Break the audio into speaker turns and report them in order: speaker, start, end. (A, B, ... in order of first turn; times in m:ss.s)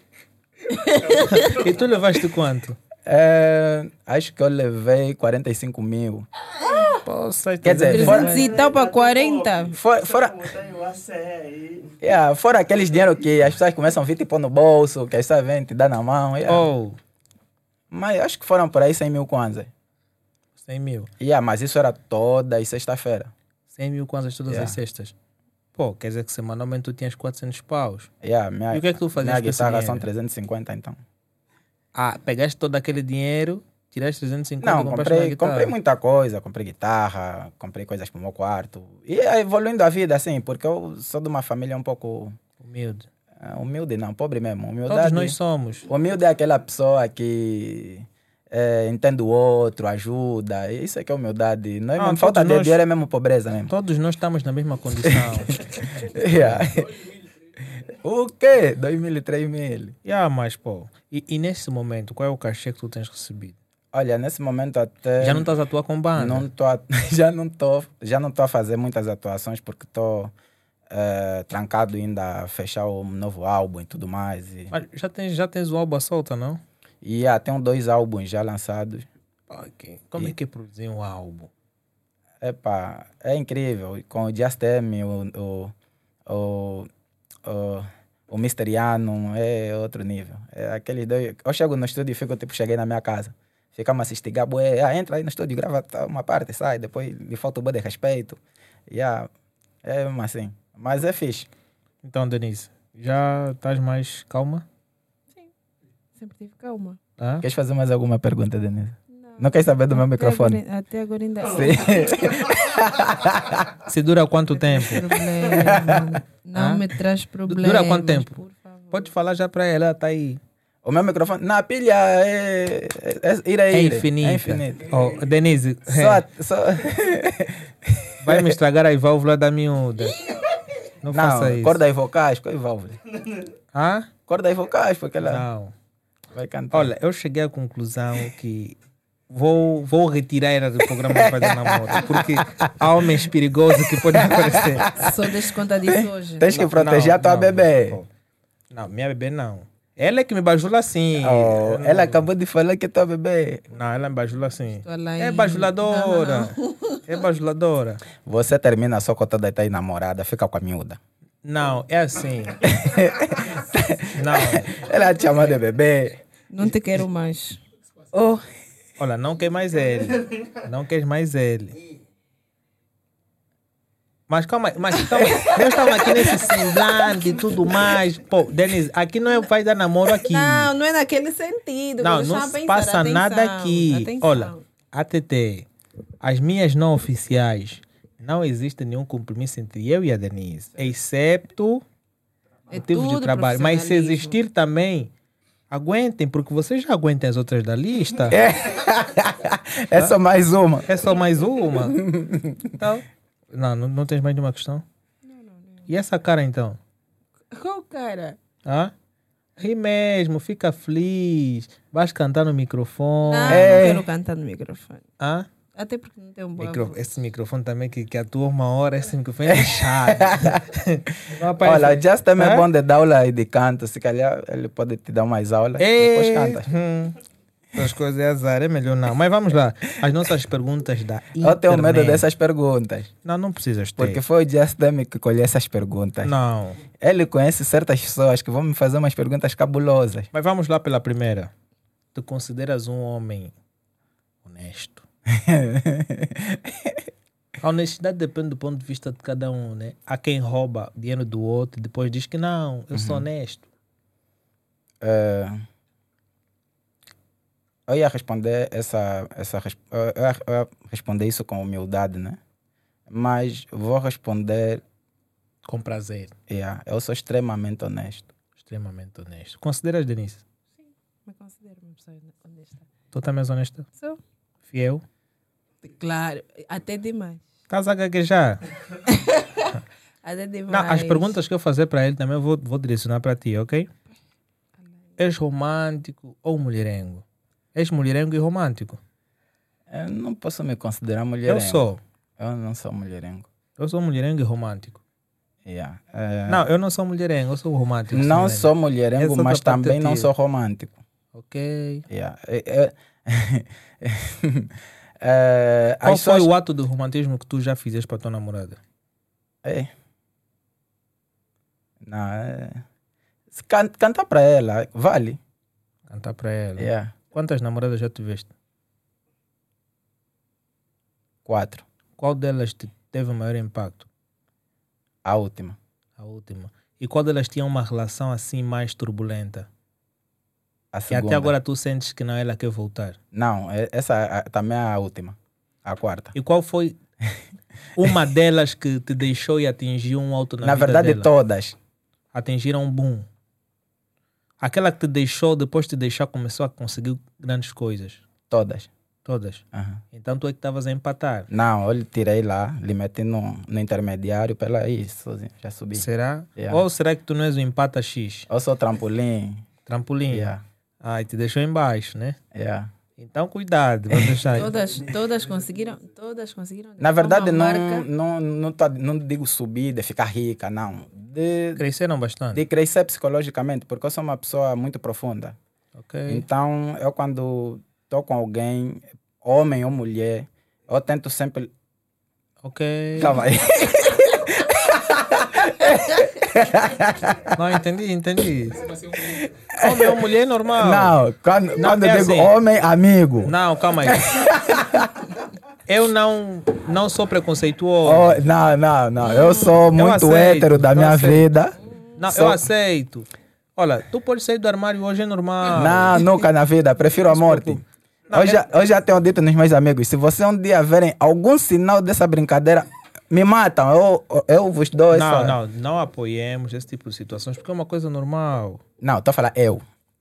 0:00.7-0:01.5 A
0:01.0-0:01.8 B
0:01.2-0:02.8 C
0:03.0-0:06.2 D
0:06.6-0:08.5 C
0:06.7-0:06.9 A
0:07.6-0:08.4 D
0:07.8-0:09.8 A
0:08.2-0:11.9 B
0:09.7-0:10.5 D
0:12.0-0:16.7 D
0:16.5-0:17.0 C
0:17.9-0:19.7 D
0:20.6-0:21.1 C
0:21.2-0:23.3 D
0:23.7-0:25.1 C
0:24.5-0:24.8 D
0:25.7-0:28.1 C
0:28.2-0:31.0 D
0:28.7-0:30.1 C
0:31.9-0:35.7 C
0:34.6-0:42.4 D
0:42.6-0:43.1 C
0:43.4-0:53.7 D
0:44.9-0:45.9 C
0:52.0-0:52.8 C
0:53.7-0:56.6 C
0:55.0-0:57.0 D
0:57.8-1:00.0 D
1:00.0-1:03.6 C
1:03.9-1:05.5 D
1:05.2-1:06.5 C
1:06.2-1:10.3 D
1:10.9-1:14.7 D
1:14.7-1:16.6 C
1:17.0-1:19.1 D
1:19.5-1:21.5 C
1:22.4-1:25.7 D
1:26.3-1:26.9 D
1:27.4-1:39.3 D
1:39.8-1:41.5 D
1:42.0-1:44.7 C
1:46.1-1:47.0 A
1:47.2-1:47.4 C
1:47.4-1:50.6 D
1:49.1-1:52.1 A
1:51.5-1:53.7 D
1:51.7-1:52.5 B
1:53.8-1:55.1 C
1:54.5-1:59.1 A
1:55.7-1:56.2 D
1:56.5-1:56.8 C
1:57.4-2:00.4 C
2:00.8-2:05.0 D
2:03.7-2:06.2 C
2:05.9-2:08.6 D
2:08.2-2:10.2 C
2:11.0-2:11.8 C
2:11.1-2:13.0 D
2:13.7-2:14.1 C
2:14.3-2:15.4 D
2:15.2-2:15.7 C
2:16.3-2:16.9 D
2:16.7-2:18.8 C
2:19.3-2:25.0 C
2:21.1-2:22.7 D
2:23.7-2:25.3 D
2:25.0-2:26.5 A
2:25.8-2:28.0 D
2:26.5-2:28.1 C
2:28.7-2:32.3 C
2:31.2-2:33.6 D
2:33.7-2:38.0 C
2:34.8-2:37.0 A
2:38.2-2:41.0 D
2:41.4-2:42.7 C
2:42.6-2:46.2 D
2:44.1-2:44.8 C
2:46.5-2:47.6 A
2:48.1-2:48.4 D
2:49.0-2:51.8 C
2:54.3-3:00.7 C
2:55.1-2:57.0 A
3:00.2-3:04.6 A
3:02.0-3:05.7 C
3:06.2-3:11.8 C
3:12.7-3:14.4 A
3:12.7-3:15.1 C
3:15.7-3:18.4 C
3:18.3-3:20.9 D
3:20.8-3:22.0 C
3:21.7-3:22.8 D
3:23.5-3:24.8 C
3:25.2-3:25.9 A
3:25.9-3:26.8 C
3:27.5-3:28.4 A
3:28.6-3:28.9 C
3:29.6-3:33.9 C
3:33.3-3:35.0 A
3:33.5-3:34.1 D
3:35.2-3:35.5 C
3:35.7-3:37.0 A
3:36.6-3:42.7 C
3:39.5-3:40.6 D
3:41.3-3:46.7 D
3:45.8-3:47.2 C
3:47.7-3:52.2 C
3:51.4-3:53.1 D
3:53.2-3:54.2 C
3:54.0-3:56.3 D
3:56.2-3:56.8 C
3:57.0-4:00.3 D
4:00.3-4:01.5 C
4:02.1-4:03.5 C
4:04.4-4:05.0 C
4:05.3-4:07.0 D
4:07.6-4:13.7 C
4:12.9-4:13.2 D
4:15.0-4:15.6 D
4:17.9-4:22.4 D
4:23.1-4:24.8 D
4:25.6-4:26.3 C
4:26.5-4:28.3 D
4:28.6-4:30.4 C
4:30.8-4:32.9 A
4:33.1-4:33.9 C
4:34.7-4:35.0 C
4:35.8-4:37.5 A
4:37.7-4:38.6 C
4:39.0-4:41.4 A
4:40.7-4:43.9 C
4:45.2-4:49.0 C
4:49.9-4:51.8 D
4:51.4-4:52.0 C
4:52.4-4:53.5 D
4:53.8-4:55.0 C
4:55.6-4:56.7 D
4:56.5-5:00.3 C
4:58.1-5:01.0 D
5:01.3-5:02.0 C
5:02.1-5:06.5 D
5:06.0-5:08.8 C
5:09.6-5:09.9 D
5:12.0-5:12.8 D
5:13.5-5:15.4 D
5:16.1-5:18.5 C
5:16.8-5:17.1 D
5:21.4-5:21.8 D
5:22.2-5:24.1 C
5:25.2-5:25.8 D
5:26.2-5:29.7 C
5:30.9-5:31.5 D
5:31.1-5:33.2 C
5:33.3-5:36.3 D
5:36.3-5:37.0 C
5:37.9-5:41.3 C
5:40.6-5:41.8 D
5:42.3-5:43.3 C
5:44.6-5:48.2 C
5:48.5-5:48.9 D
5:49.2-5:51.5 C
5:49.7-5:50.0 D
5:51.5-5:56.0 D
5:55.9-5:58.5 C
5:56.6-5:56.8 D
5:58.5-5:59.6 D
5:59.8-6:02.4 C
6:00.3-6:00.6 D
6:02.5-6:02.9 D
6:03.2-6:04.7 C
6:04.1-6:04.5 D
6:04.5-6:08.0 A
6:07.0-6:11.8 D
6:11.8-6:12.6 C
6:12.5-6:15.6 D
6:16.0-6:16.4 C
6:16.3-6:21.7 D
6:22.6-6:23.4 C
6:23.2-6:27.6 D
6:27.5-6:29.0 C
6:29.1-6:30.2 D
6:29.8-6:31.2 C
6:30.8-6:35.3 D
6:31.8-6:32.5 C
6:33.4-6:34.4 C
6:35.9-6:38.4 C
6:38.0-6:42.6 D
6:39.3-6:39.7 A
6:39.9-6:41.5 C
6:42.2-6:46.2 C
6:45.7-6:55.6 D
6:47.3-6:48.6 C
6:55.1-6:58.8 C
6:59.0-6:59.8 D